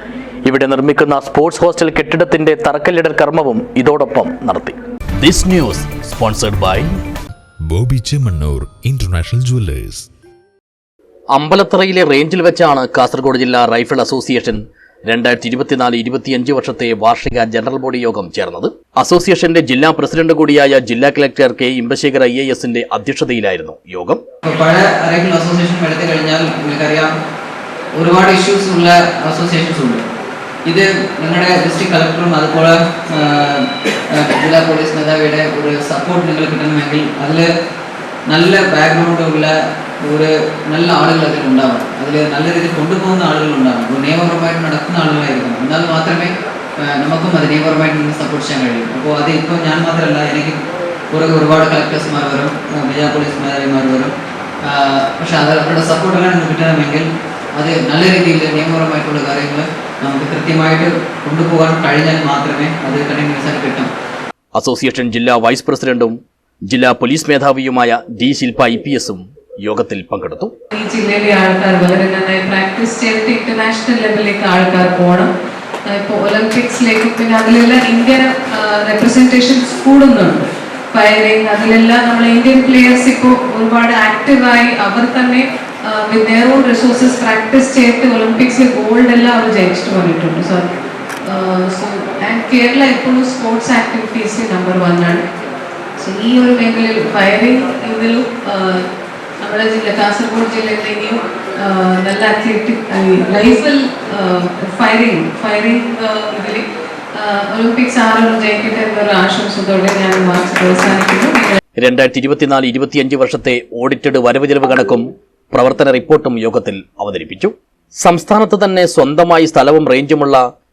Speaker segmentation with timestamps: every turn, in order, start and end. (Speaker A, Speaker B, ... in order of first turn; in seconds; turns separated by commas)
Speaker A: 0.5-6.9, Speaker B: 7.7-10.1, Speaker A: 11.3-24.2, Speaker C: 24.5-27.1, Speaker C: 27.9-30.0, Speaker C: 30.7-37.5, Speaker C: 38.3-39.5, Speaker C: 40.0-50.6, Speaker C: 51.1-54.1, Speaker C: 54.6-63.9, Speaker A: 64.5-66.2, Speaker A: 66.7-70.5, Speaker D: 70.7-75.3, Speaker D: 75.9-90.7, Speaker D: 91.2-95.2, Speaker D: 96.0-98.8, Speaker D: 99.4-111.6, Speaker A: 111.8-120.4